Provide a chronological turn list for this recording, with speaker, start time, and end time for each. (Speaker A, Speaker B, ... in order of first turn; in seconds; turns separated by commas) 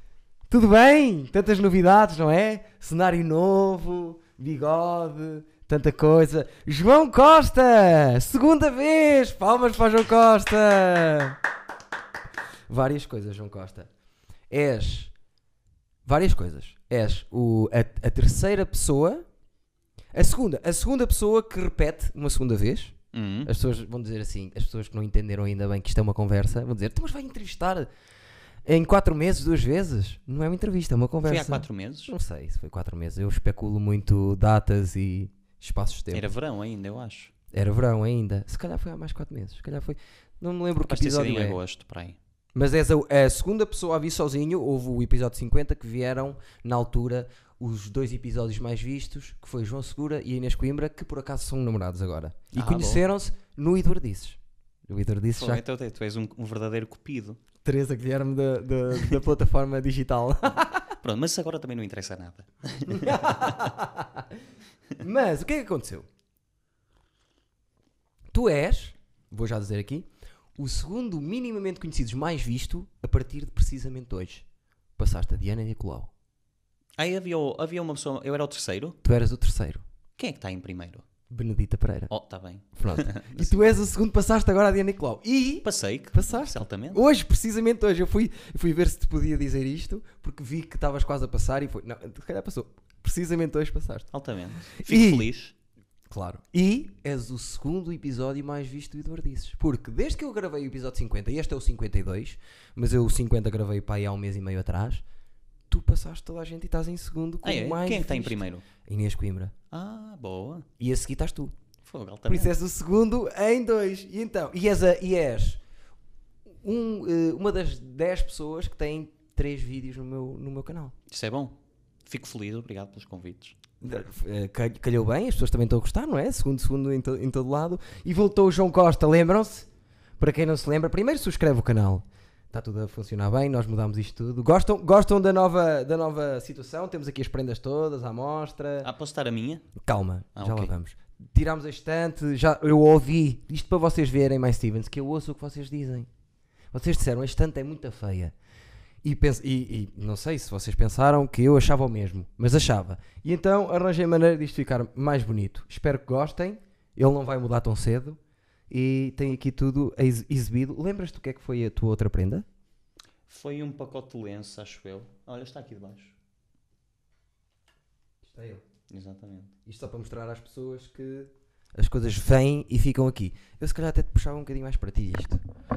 Speaker A: 0.5-11.4, Speaker A: 12.7-13.9, Speaker A: 14.5-15.1, Speaker A: 16.1-19.2, Speaker A: 20.1-27.9, Speaker B: 23.1-23.5, Speaker A: 28.6-36.3, Speaker B: 31.2-32.1, Speaker B: 36.1-37.3, Speaker A: 37.5-41.6, Speaker B: 40.9-42.2, Speaker A: 42.5-55.6, Speaker B: 52.5-53.0, Speaker B: 55.3-57.4, Speaker A: 57.6-60.9, Speaker B: 61.0-63.6, Speaker A: 62.9-64.4, Speaker A: 65.0-66.0, Speaker A: 68.3-74.4, Speaker A: 75.0-76.1, Speaker B: 77.0-79.0, Speaker A: 79.0-79.8, Speaker B: 80.2-81.0, Speaker A: 81.3-82.1, Speaker B: 82.1-83.5, Speaker A: 82.7-94.1, Speaker B: 85.6-87.0, Speaker B: 94.1-95.5, Speaker A: 94.7-95.3, Speaker A: 96.1-105.0, Speaker A: 105.7-109.5, Speaker B: 107.4-108.6, Speaker B: 109.7-110.7, Speaker A: 110.8-111.5, Speaker B: 111.8-112.5, Speaker A: 112.3-115.6, Speaker A: 116.6-120.9, Speaker B: 121.1-123.5, Speaker A: 123.8-129.7, Speaker A: 130.2-138.9, Speaker B: 138.8-139.7, Speaker A: 139.8-146.1, Speaker B: 140.3-140.7, Speaker A: 146.7-148.3, Speaker A: 149.0-158.2, Speaker A: 158.7-162.4, Speaker B: 163.3-166.1, Speaker A: 168.2-168.6, Speaker B: 168.9-169.5, Speaker A: 169.7-175.4